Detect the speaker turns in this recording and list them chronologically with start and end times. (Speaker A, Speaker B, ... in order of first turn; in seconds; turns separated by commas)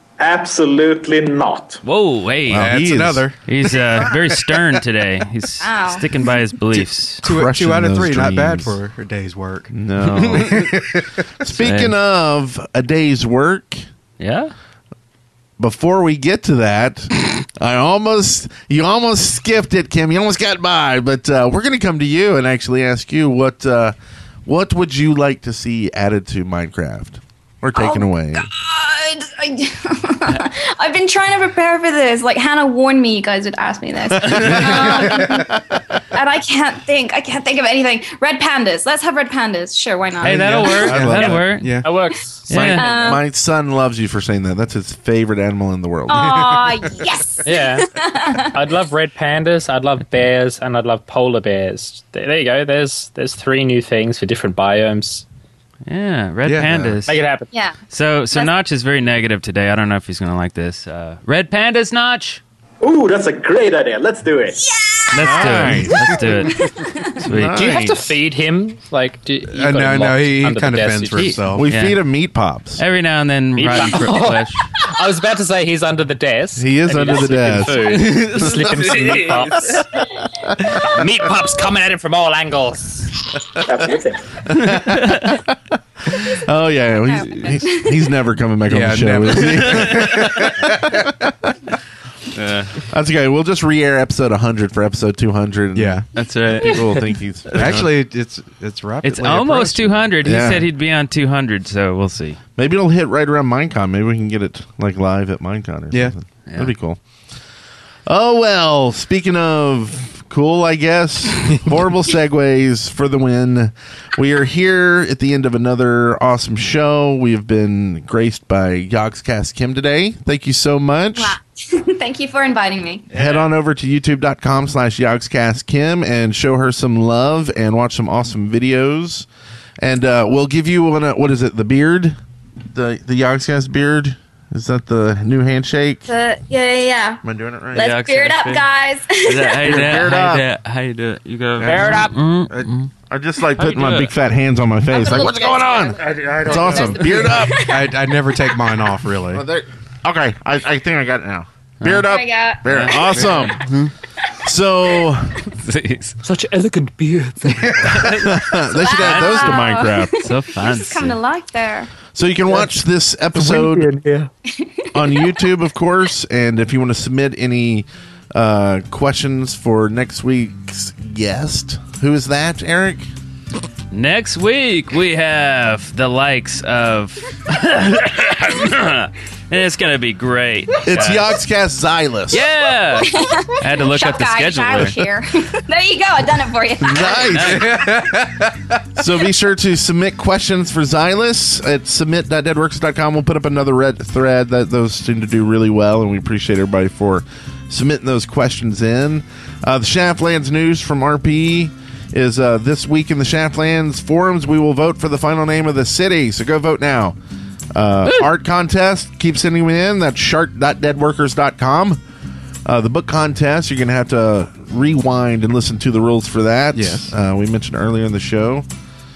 Speaker A: 0.2-1.8, Speaker B: 1.8-2.7, Speaker C: 2.5-3.2, Speaker D: 2.5-4.4, Speaker B: 3.5-7.2, Speaker E: 5.6-6.0, Speaker D: 6.7-11.2, Speaker C: 7.2-8.8, Speaker C: 9.7-13.8, Speaker B: 10.0-10.7, Speaker B: 11.5-11.9, Speaker B: 14.2-14.5, Speaker C: 15.6-28.4, Speaker E: 27.7-35.5, Speaker B: 34.2-34.8, Speaker C: 34.3-35.6, Speaker E: 36.1-40.8, Speaker C: 40.2-41.7, Speaker B: 40.2-41.8, Speaker D: 40.9-41.9, Speaker F: 41.8-42.5, Speaker B: 42.5-42.8, Speaker C: 42.5-46.5, Speaker E: 42.7-43.2, Speaker E: 46.1-48.6, Speaker D: 46.2-46.6, Speaker F: 47.5-55.2, Speaker B: 55.9-57.2, Speaker D: 56.4-56.9, Speaker C: 56.7-57.0, Speaker F: 57.1-57.5, Speaker E: 57.5-57.8, Speaker B: 57.9-62.4, Speaker A: 62.8-64.7, Speaker E: 64.6-65.8, Speaker B: 65.1-67.9, Speaker C: 65.1-66.3, Speaker E: 66.5-67.2, Speaker C: 67.2-68.1, Speaker F: 67.5-71.5, Speaker D: 69.5-71.7, Speaker B: 71.2-72.0, Speaker C: 71.5-72.8, Speaker B: 72.8-74.7, Speaker F: 73.6-83.1, Speaker C: 76.6-78.4, Speaker B: 77.8-79.8, Speaker A: 83.7-84.2, Speaker C: 84.5-85.6, Speaker B: 84.6-85.4, Speaker C: 86.3-91.3, Speaker E: 87.0-88.0, Speaker D: 88.7-91.1, Speaker B: 89.7-90.1, Speaker B: 92.3-92.8, Speaker C: 92.9-97.9, Speaker D: 95.7-96.1, Speaker B: 96.1-97.9, Speaker D: 97.5-100.1, Speaker B: 99.0-102.4, Speaker C: 100.2-100.7, Speaker C: 102.6-107.0, Speaker B: 106.5-106.7, Speaker C: 108.1-121.4, Speaker E: 121.2-123.1, Speaker B: 123.1-123.5, Speaker C: 123.1-129.3, Speaker C: 129.8-132.2, Speaker C: 132.7-136.1, Speaker E: 136.1-137.2, Speaker C: 137.2-137.9, Speaker E: 137.7-139.7, Speaker B: 137.8-142.9, Speaker C: 139.6-140.4, Speaker D: 141.6-142.7, Speaker F: 141.6-142.2, Speaker C: 143.1-147.7, Speaker B: 143.6-144.1, Speaker E: 144.9-147.9, Speaker F: 146.0-146.8, Speaker D: 146.4-146.9, Speaker D: 147.7-149.4, Speaker C: 149.3-153.7, Speaker B: 151.8-152.1, Speaker E: 152.1-153.3, Speaker B: 152.6-153.9, Speaker C: 154.4-155.5, Speaker B: 155.5-156.2, Speaker F: 156.2-157.5, Speaker D: 157.4-158.3, Speaker B: 157.9-161.2, Speaker C: 157.9-160.3, Speaker E: 158.8-161.9, Speaker C: 162.1-164.0, Speaker F: 163.6-164.3, Speaker E: 164.5-165.4, Speaker C: 164.9-173.1, Speaker B: 173.9-181.4, Speaker C: 180.8-182.5, Speaker B: 182.3-185.0, Speaker E: 183.1-187.7, Speaker C: 186.8-187.9, Speaker B: 187.3-187.7, Speaker D: 187.4-188.8, Speaker C: 188.9-207.2, Speaker C: 207.7-212.0, Speaker C: 212.6-218.7, Speaker D: 216.7-217.1